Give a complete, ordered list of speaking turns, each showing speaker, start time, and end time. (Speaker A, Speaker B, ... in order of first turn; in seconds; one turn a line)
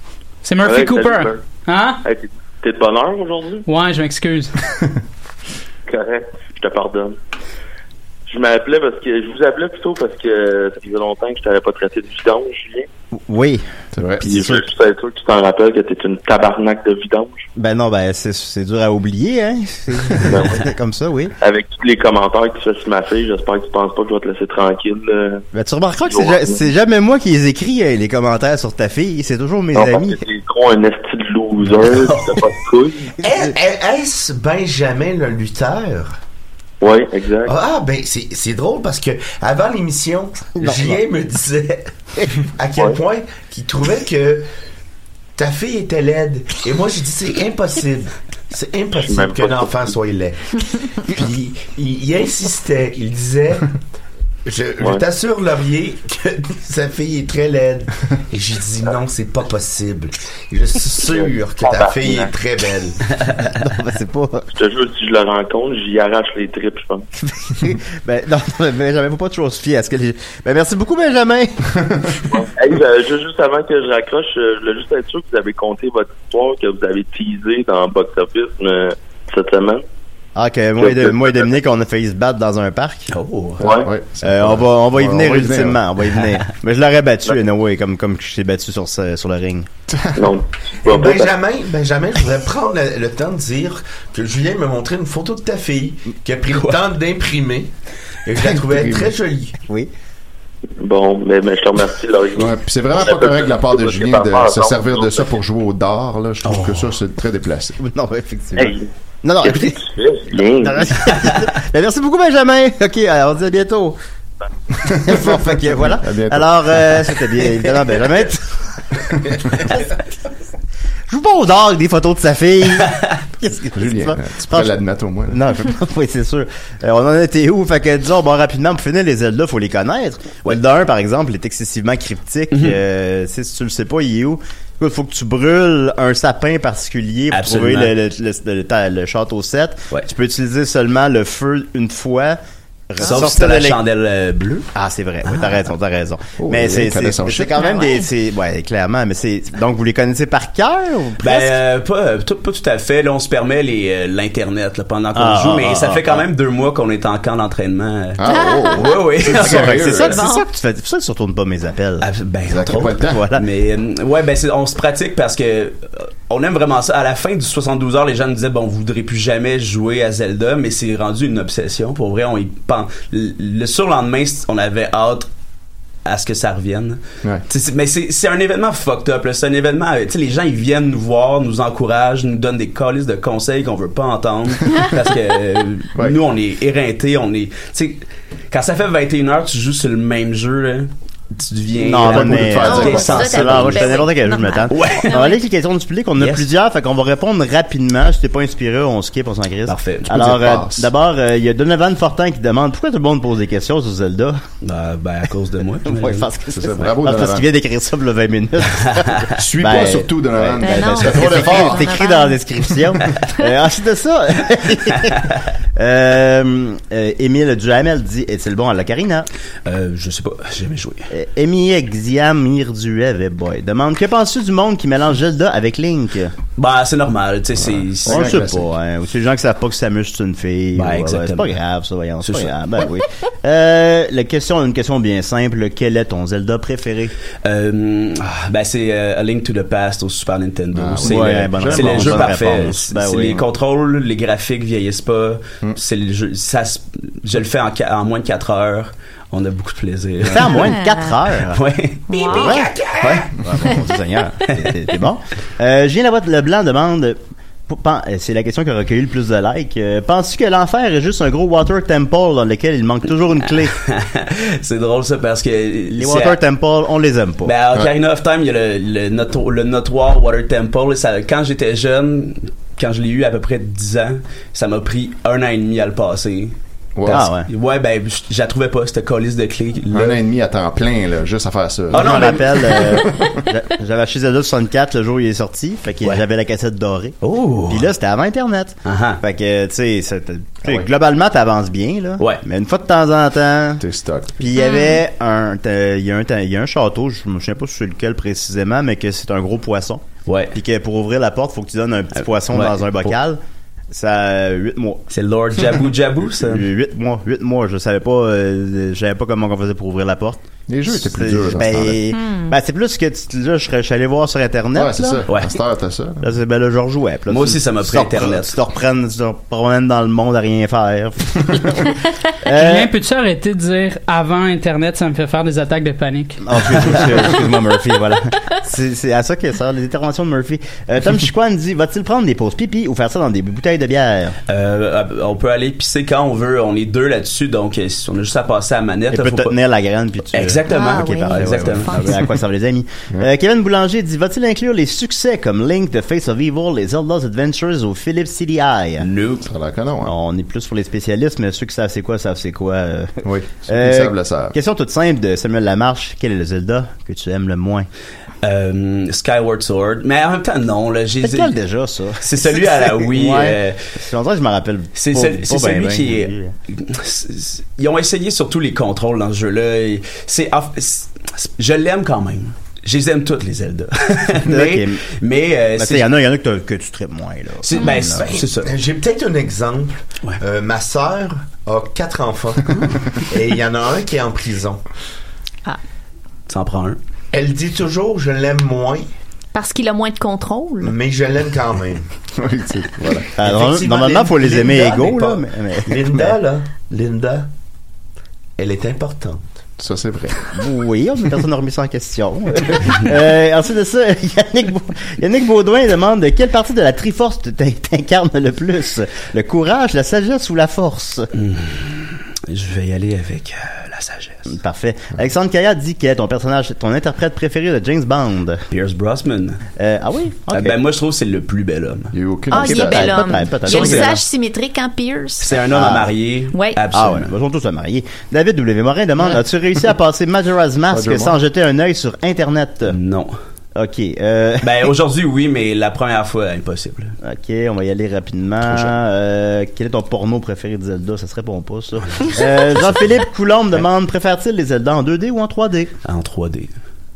Speaker A: 0.4-2.0
Speaker B: 0.6-1.4
Speaker B: 2.0-3.7
Speaker A: 3.7-4.5
Speaker B: 5.9-7.2
Speaker B: 8.3-12.9
Speaker C: 13.1-13.6
Speaker D: 13.9-14.3
Speaker C: 14.2-14.6
Speaker B: 14.2-17.5
Speaker C: 17.6-21.3
Speaker B: 20.2-20.6
Speaker B: 21.4-25.4
Speaker C: 25.5-30.2
Speaker B: 26.1-26.6
Speaker B: 29.7-33.1
Speaker E: 31.9-32.5
Speaker F: 33.2-36.2
Speaker B: 36.8-37.5
Speaker F: 37.5-44.5
Speaker C: 40.6-41.0
Speaker F: 45.4-53.7
Speaker B: 49.0-49.9
Speaker F: 54.5-63.0
Speaker B: 61.1-62.3
Speaker C: 63.5-64.5
Speaker B: 64.5-67.1
Speaker C: 67.2-71.7
Speaker B: 72.3-79.8
Speaker C: 80.4-83.1
Speaker B: 80.8-81.3
Speaker E: 83.1-83.6
Speaker B: 83.6-83.9
Speaker D: 83.6-85.8
Speaker C: 84.2-89.7
Speaker D: 89.9-90.3
Speaker B: 90.2-91.3
Speaker F: 90.8-97.7
Speaker E: 96.5-96.8
Speaker F: 98.3-99.5
Speaker D: 98.7-99.1
Speaker C: 99.7-99.9
Speaker B: 100.8-105.4
Speaker D: 102.4-107.8
Speaker E: 106.4-106.9
Speaker C: 107.8-109.8
Speaker B: 108.6-108.9
Speaker B: 109.4-110.9
Speaker C: 110.5-114.0
Speaker D: 114.9-117.0
Speaker C: 114.9-118.5
Speaker C: 121.1-124.8
Speaker D: 123.7-125.4
Speaker C: 125.3-142.4
Speaker E: 132.5-132.8
Speaker E: 137.3-137.9
Speaker C: 142.9-143.8
Speaker E: 143.0-144.7
Speaker C: 144.8-151.6
Speaker E: 145.2-145.6
Speaker D: 146.4-147.6
Speaker G: 147.6-148.1
Speaker E: 151.2-158.2
Speaker C: 155.2-156.2
Speaker D: 158.2-160.2
Speaker G: 158.3-158.8
Speaker E: 158.8-160.2
Speaker C: 159.3-162.1
Speaker G: 160.0-160.4
Speaker E: 162.0-175.3
Speaker D: 162.5-163.2
Speaker C: 162.9-163.4
Speaker E: 176.1-194.1
Speaker C: 191.8-204.4
Speaker D: 191.9-193.3
Speaker G: 192.6-195.4
Speaker E: 194.7-195.2
Speaker E: 196.2-196.5
Speaker E: 199.7-200.4
Speaker D: 200.1-200.9
Speaker E: 204.6-206.3
Speaker C: 205.9-219.3
Speaker D: 206.5-207.5
Speaker E: 209.0-209.3
Speaker D: 209.3-211.9
Speaker G: 210.6-212.4
Speaker E: 219.7-221.1
Speaker C: 221.1-226.3
Speaker E: 226.6-228.5
Speaker D: 228.0-228.7
Speaker C: 228.1-237.1
Speaker E: 230.8-231.6
Speaker E: 232.2-232.5
Speaker E: 237.4-250.7
Speaker D: 240.8-242.4
Speaker C: 241.0-243.4
Speaker C: 250.2-251.6
Speaker G: 250.6-251.1
Speaker E: 251.5-252.1
Speaker G: 252.1-252.6
Speaker F: 252.1-253.3
Speaker C: 252.3-252.7
Speaker E: 253.0-253.3
Speaker C: 253.4-263.8
Speaker E: 263.8-266.4
Speaker C: 265.9-267.5
Speaker E: 267.4-276.6
Speaker D: 277.0-277.3
Speaker E: 277.1-280.2
Speaker C: 277.1-277.5
Speaker D: 279.9-283.3
Speaker E: 281.9-283.1
Speaker C: 281.9-287.2
Speaker E: 287.2-287.9
Speaker C: 287.7-293.8
Speaker E: 288.9-289.2
Speaker D: 293.8-294.4
Speaker C: 294.4-303.4
Speaker G: 294.6-295.0
Speaker E: 300.3-300.6
Speaker E: 302.5-303.1
Speaker C: 303.9-305.0
Speaker E: 305.1-306.6
Speaker C: 306.4-315.2
Speaker D: 310.7-312.0
Speaker G: 312.1-312.5
Speaker D: 314.7-316.3
Speaker E: 315.3-315.6
Speaker C: 316.2-322.9
Speaker E: 317.3-318.6
Speaker A: 322.5-326.4
Speaker C: 326.4-334.4
Speaker E: 334.5-339.6
Speaker C: 339.1-349.1
Speaker E: 340.3-342.1
Speaker G: 340.7-342.1
Speaker E: 349.0-349.5
Speaker D: 349.4-350.1
Speaker C: 350.1-357.9
Speaker D: 353.2-354.6
Speaker E: 358.4-361.5
Speaker C: 361.2-366.5
Speaker E: 362.2-363.8
Speaker E: 365.0-376.1
Speaker C: 374.4-375.1
Speaker C: 375.8-378.4
Speaker E: 377.6-378.7
Speaker F: 378.0-384.8
Speaker E: 386.5-387.0
Speaker F: 387.3-389.1
Speaker G: 389.5-390.9
Speaker F: 390.8-392.1
Speaker D: 392.4-393.3
Speaker C: 393.4-396.4
Speaker F: 393.4-397.5
Speaker F: 398.6-399.5
Speaker D: 399.8-400.4
Speaker C: 400.6-411.3
Speaker E: 411.4-414.5
Speaker C: 414.5-418.6
Speaker E: 418.7-419.6
Speaker C: 419.8-420.8
Speaker E: 420.5-422.1
Speaker D: 422.1-423.2
Speaker G: 422.5-425.5
Speaker C: 422.5-424.2
Speaker E: 423.6-424.2
Speaker E: 425.4-427.3
Speaker C: 425.7-426.1
Speaker G: 426.5-426.8
Speaker C: 426.9-433.0
Speaker D: 430.9-431.4
Speaker E: 432.9-433.4
Speaker C: 433.8-434.9
Speaker E: 434.6-437.1
Speaker C: 437.2-445.9
Speaker E: 446.1-446.7